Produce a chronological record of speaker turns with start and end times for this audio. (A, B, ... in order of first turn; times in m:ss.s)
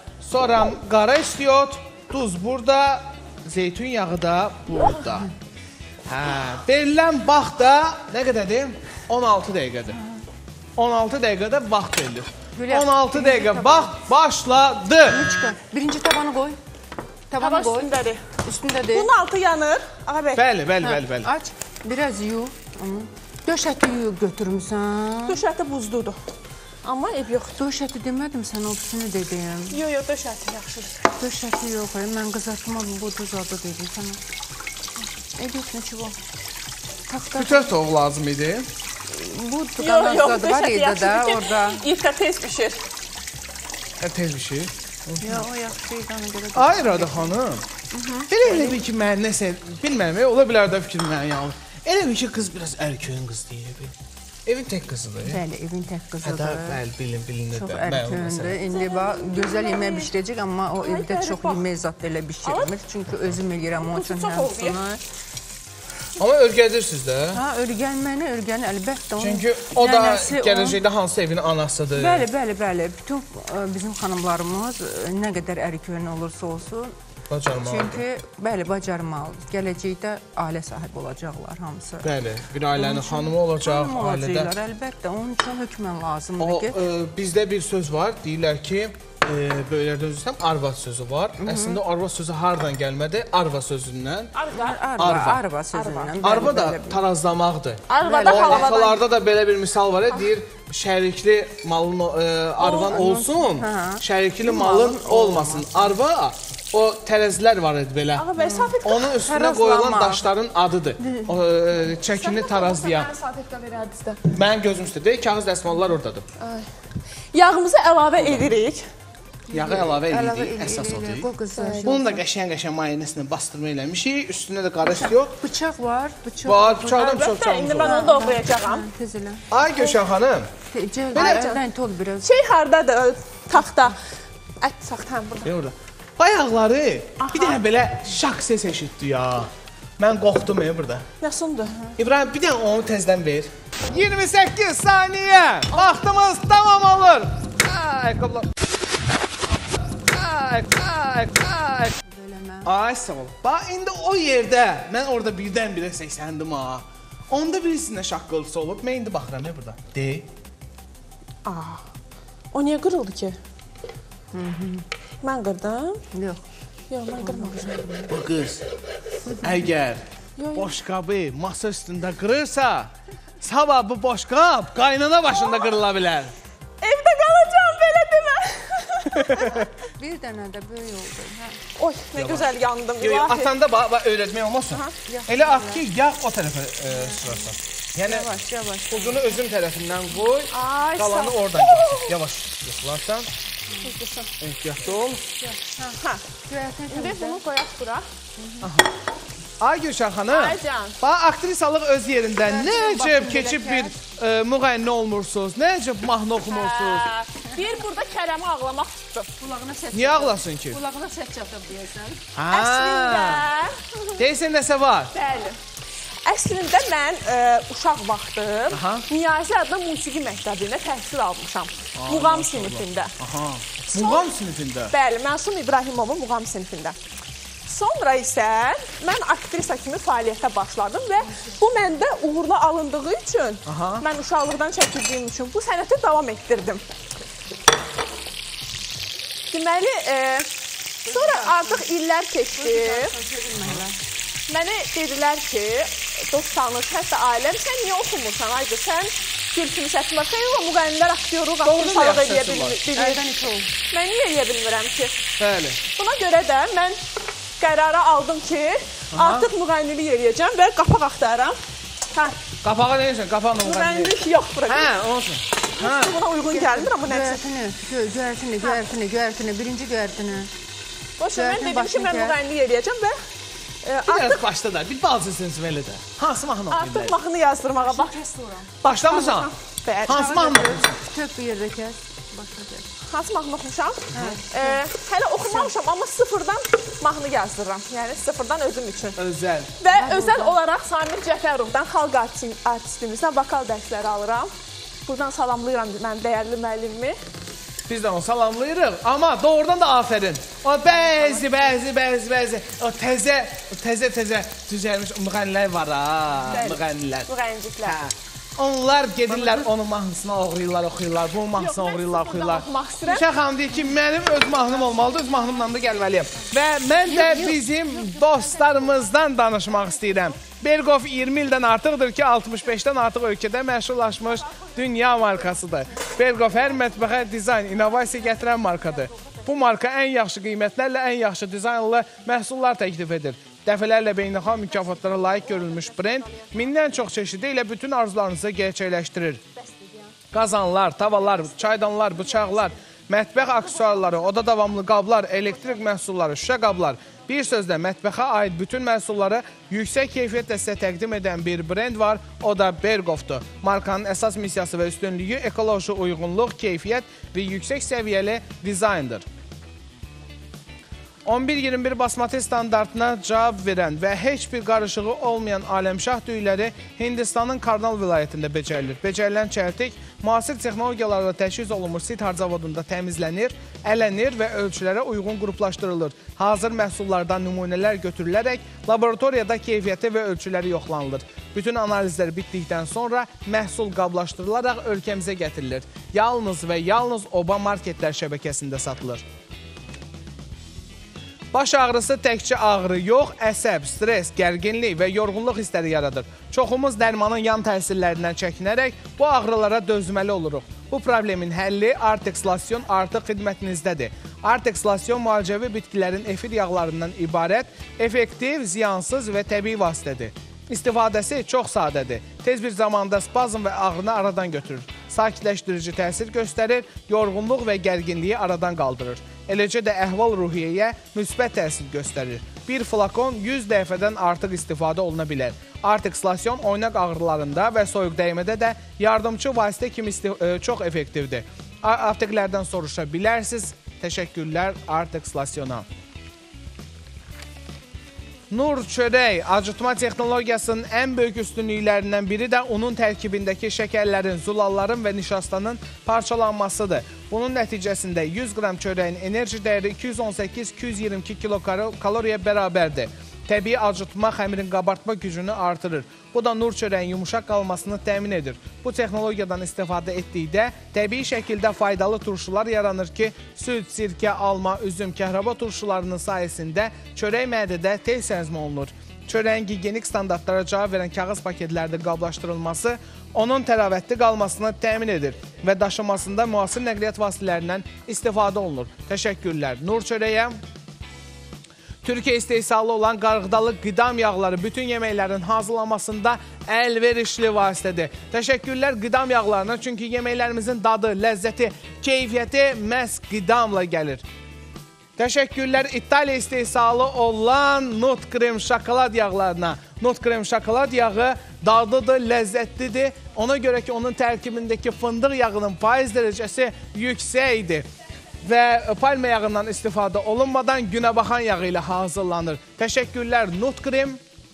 0:00.2-0:05.3 A
0:06.1-0:10.0 A
0:10.8-0:15.2 A
0:12.6-0:13.9 B
0:15.1-0:16.6 B
0:17.3-0:17.9 B
0:17.4-0:18.2 C
0:18.4-0:19.1 B
0:18.9-0:20.5 C
0:20.4-0:21.3 A
0:20.8-0:25.4 B
0:25.3-0:26.2 C
0:26.8-0:27.6 C
0:27.6-0:29.8 B
0:29.7-0:31.0 C
0:31.2-0:34.2 B
0:35.4-0:36.2 B
0:37.1-0:37.8 B
0:37.4-0:38.7 A
0:39.1-0:41.8 B
0:39.8-0:42.8 C
0:44.0-0:45.4 A
0:45.2-0:47.4 B
0:46.6-0:47.6 A
0:47.9-0:48.8 B
0:48.3-0:54.0 A
0:54.5-0:55.4 A
0:55.3-0:56.8 B
0:56.2-0:58.6 A
0:57.5-1:05.0 B
0:58.7-1:00.1 C
1:00.8-1:01.6 C
1:02.4-1:02.7 C
1:03.9-1:04.8 C
1:06.2-1:07.4 A
1:07.3-1:10.8 B
1:09.2-1:12.3 A
1:12.0-1:17.0 B
1:17.3-1:18.0 A
1:17.6-1:22.1 B
1:22.0-1:24.5 A
1:22.7-1:26.8 B
1:26.4-1:34.3 A
1:31.4-1:31.8 B
1:34.3-1:34.9 C
1:34.5-1:37.0 B
1:35.0-1:35.4 A
1:35.7-1:36.2 C
1:36.2-1:48.3 A
1:37.9-1:39.0 C
1:38.0-1:38.8 B
1:42.6-1:43.0 C
1:42.8-1:46.0 B
1:48.2-1:49.2 C
1:48.4-1:50.2 B
1:48.8-1:53.1 A
1:51.0-1:51.4 B
1:52.1-1:54.3 C
1:54.3-1:56.3 A
1:56.4-1:56.7 C
1:57.3-1:58.8 C
1:58.2-1:58.5 A
1:59.5-2:02.2 B
1:59.5-2:01.3 A
2:01.6-2:01.9 C
2:01.8-2:05.4 A
2:04.9-2:07.3 B
2:06.4-2:08.0 A
2:07.0-2:08.8 C
2:07.8-2:09.4 B
2:09.5-2:10.5 A
2:09.8-2:10.0 C
2:10.7-2:12.3 B
2:11.2-2:11.6 C
2:11.2-2:11.4 A
2:12.2-2:14.0 C
2:14.6-2:15.5 C
2:15.4-2:21.1 A
2:17.2-2:17.6 C
2:21.2-2:21.8 C
2:22.0-2:28.5 A
2:30.1-2:32.0 A
2:32.1-2:32.7 B
2:32.6-2:40.3 A
2:41.5-2:41.8 C
2:42.5-2:43.4 C
2:44.3-2:44.8 B
2:45.2-2:46.0 C
2:46.1-2:46.4 B
2:46.9-2:47.9 C
2:47.2-2:48.1 B
2:48.1-2:48.6 A
2:49.3-2:50.0 A
2:50.4-2:50.7 C
2:50.6-2:56.3 A
2:56.8-2:59.7 C
2:59.1-2:59.7 A
3:00.0-3:01.6 B
3:01.8-3:03.5 C
3:02.2-3:08.3 A
3:05.1-3:05.8 B
3:06.9-3:07.5 B
3:08.1-3:09.4 B
3:08.9-3:13.3 A
3:10.5-3:12.2 C
3:13.8-3:14.3 C
3:14.4-3:15.2 A
3:15.3-3:17.4 B
3:16.9-3:18.7 C
3:18.6-3:18.9 A
3:19.6-3:27.1 A
3:20.3-3:21.0 C
3:22.4-3:24.0 B
3:26.5-3:29.3 C
3:29.4-3:32.2 B
3:29.9-3:30.8 A
3:32.4-3:33.5 A
3:32.5-3:33.8 C
3:34.2-3:35.1 A
3:35.1-3:35.6 C
3:36.2-3:43.1 C
3:38.7-3:39.0 A
3:42.0-3:44.9 A
3:43.9-3:44.3 C
3:44.9-3:47.0 C
3:47.7-3:56.8 C
3:53.7-3:54.0 A
3:59.5-4:00.5 C
4:01.0-4:01.9 B
4:01.1-4:03.1 C
4:02.6-4:04.0 B
4:04.5-4:13.2 C
4:11.6-4:12.8 A
4:12.9-4:13.7 B
4:13.9-4:15.2 C
4:15.4-4:15.8 A
4:15.9-4:17.0 C
4:17.6-4:21.6 C
4:19.1-4:19.5 A
4:22.1-4:22.4 C
4:22.6-4:24.1 A
4:23.6-4:24.9 C
4:24.7-4:26.2 A
4:25.8-4:27.4 C
4:26.5-4:30.5 B
4:31.2-4:33.2 C
4:31.3-4:32.4 B
4:33.8-4:34.4 C
4:34.1-4:37.2 A
4:36.7-4:38.2 C
4:37.8-4:38.7 B
4:38.8-4:39.5 A
4:39.0-4:40.7 C
4:40.1-4:41.0 A
4:40.1-4:42.9 B
4:43.1-4:49.2 C
4:44.1-4:44.8 B
4:45.4-4:45.7 B
4:49.2-4:49.7 A
4:49.8-4:54.5 C
4:49.9-4:50.6 B
4:55.1-4:57.2 C
4:57.9-5:07.3 A
5:06.5-5:08.0 C
5:07.8-5:39.4 A
5:09.3-5:09.7 C
5:11.6-5:13.3 C
5:17.0-5:18.4 B
5:40.3-5:59.2 A
6:01.2-6:29.2 A
6:31.5-7:15.9 A
7:18.5-8:00.6 A
8:02.0-8:14.2 A
8:15.2-8:27.9 A
8:28.4-8:34.2 A